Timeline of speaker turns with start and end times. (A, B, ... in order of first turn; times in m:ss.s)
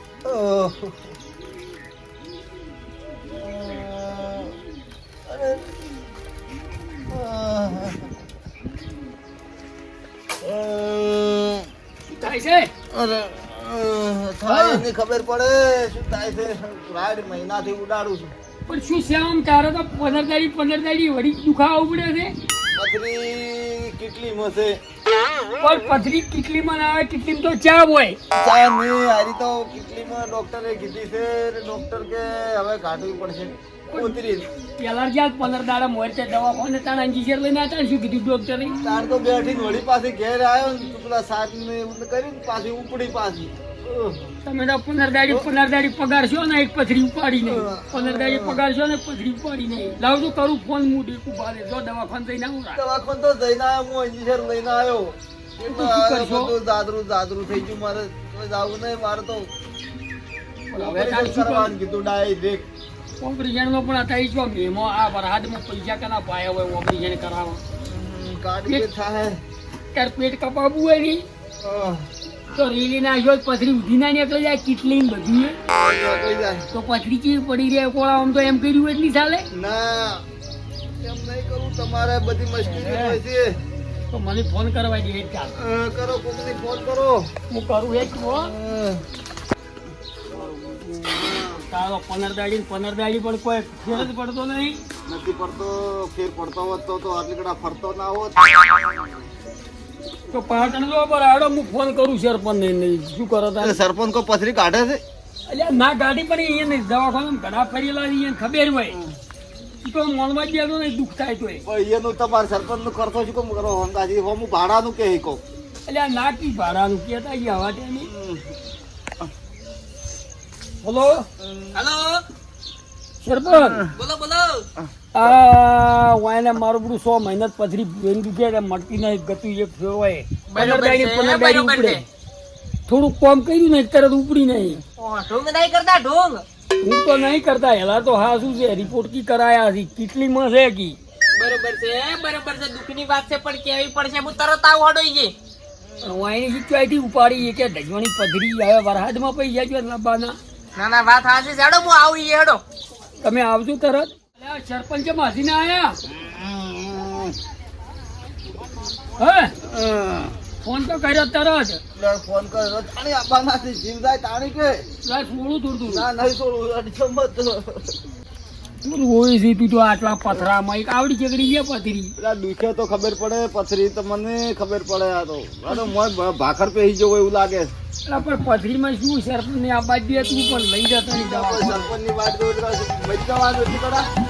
0:00.2-0:01.0 A
0:03.3-0:04.5 A
0:05.3-0:05.7 A
0:07.1-0:08.1 A
0:10.4-0:11.7 A
0:12.1-0:12.7 B
0:12.9-0:18.3 A
0:14.5-0:14.8 B
0:18.7-0:22.4 B
0:22.8-0:24.8 A
0:25.6-0:28.2 B
0:28.4-0:34.5 A
0:33.9-0:34.2 B
0:34.8-0:38.8 B
0:38.8-0:44.3 A
0:44.4-0:52.8 B
0:47.4-0:48.6 A
0:52.8-0:59.5 A
0:55.7-0:56.5 B
1:00.7-1:01.7 B
1:00.8-1:02.7 A
1:03.2-1:07.6 B
1:07.8-1:09.4 A
1:09.9-1:11.2 B
1:11.6-1:12.1 A
1:12.5-1:15.6 B
1:15.7-1:16.7 A
1:16.7-1:19.5 B
1:19.5-1:20.2 A
1:21.0-1:23.6 A
1:22.6-1:23.2 B
1:24.1-1:25.6 B
1:25.5-1:27.3 A
1:27.5-1:28.5 B
1:28.4-1:29.0 A
1:30.3-1:34.8 B
1:31.1-1:31.6 A
1:35.1-1:39.1 A
1:40.3-1:43.8 B
1:43.6-1:45.0 A
1:45.5-1:49.0 B
1:49.8-1:51.6 B
1:51.6-1:55.4 A
1:55.9-1:58.1 B
1:58.0-1:58.6 A
2:00.8-2:01.3 B
2:01.4-2:01.8 A
2:01.7-2:02.2 C
2:03.2-2:03.8 B
2:03.5-2:03.9 A
2:03.6-2:04.7 C
2:05.1-2:12.0 B
2:10.5-2:12.0 C
2:12.9-2:14.8 B
2:15.0-2:16.4 C
2:16.8-2:21.0 B
2:21.4-2:25.4 C
2:26.0-2:30.4 B
2:30.8-2:32.6 C
2:33.2-2:36.0 B
2:36.1-2:37.4 A
2:39.2-2:39.5 B
2:39.6-2:40.3 A
2:40.6-2:41.8 B
2:42.0-2:44.8 A
2:45.0-2:46.1 B
2:45.9-2:47.9 A
2:48.8-2:52.1 B
2:52.2-2:57.7 A
2:58.1-3:01.9 B
3:01.1-3:04.1 A